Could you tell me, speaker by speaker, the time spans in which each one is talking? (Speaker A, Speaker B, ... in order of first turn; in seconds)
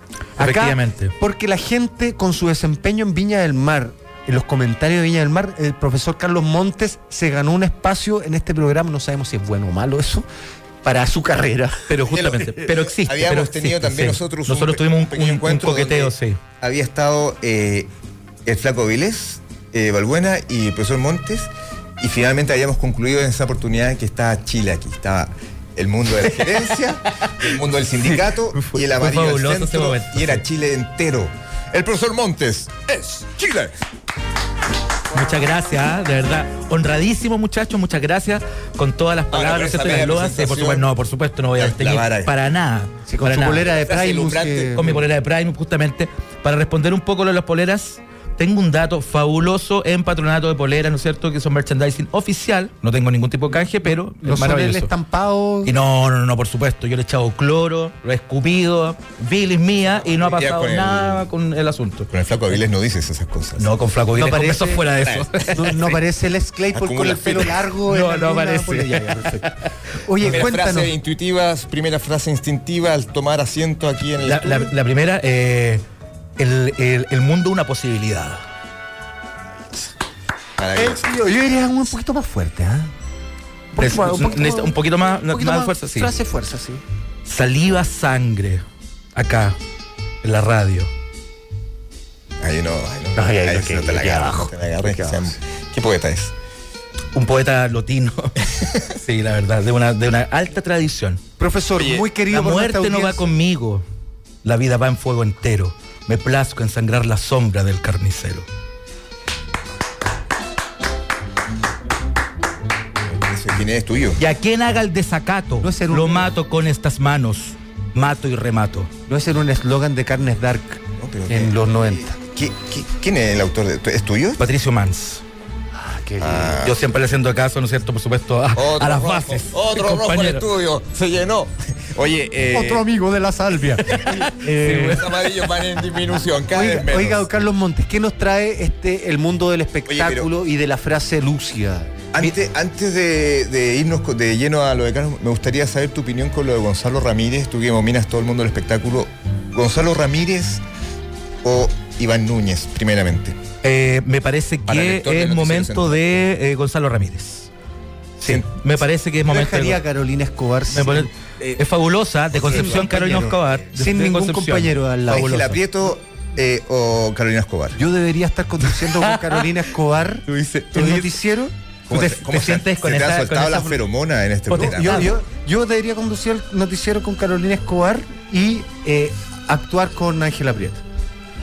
Speaker A: 0.4-1.1, 11.9-16.4, 28.0-30.4, 35.1-43.7, 44.7-54.9, 55.6-62.1, 63.6-65.8, 67.8-69.5, 74.2-75.8, 76.4-78.4, 83.8-86.1, 87.2-88.6, 89.1-89.6, 90.2-90.9, 97.1-98.3, 98.9-101.2, 102.2-103.8, 104.4-108.5, 114.2-118.9, 124.4-125.2, 126.6-130.5, 134.0-135.0, 153.6-157.5, 158.2-159.8, 160.7-165.6, 168.9-169.4, 170.3-171.1, 171.9-173.8, 174.5-175.1
Speaker B: 0.4-10.2, 10.8-11.9, 43.1-45.0, 54.2-55.7, 64.1-64.8, 65.5-69.5, 70.0-70.9, 80.8-82.9, 83.7-86.8, 93.1-95.3, 101.4-103.3, 115.6-116.3, 119.1-122.2, 125.7-126.6, 132.5-135.0, 136.5-142.0, 159.3-161.6, 162.4-165.4, 167.7-171.5, 174.5-180.8
Speaker C: 12.1-17.9, 18.4-33.7, 39.3-40.9, 41.5-42.4, 43.8-44.8, 60.1-61.2, 62.1-63.7, 65.0-65.8, 66.7-67.6, 70.2-74.7, 80.6-81.0, 92.4-96.3, 101.8-102.0, 113.1-114.2, 121.0-124.4, 126.2-126.8, 128.5-132.8, 134.8-137.3, 139.9-140.3, 142.1-150.6, 151.4-153.4, 154.6-156.2, 158.2-158.6, 162.3-163.2, 165.1-167.8, 171.9-175.1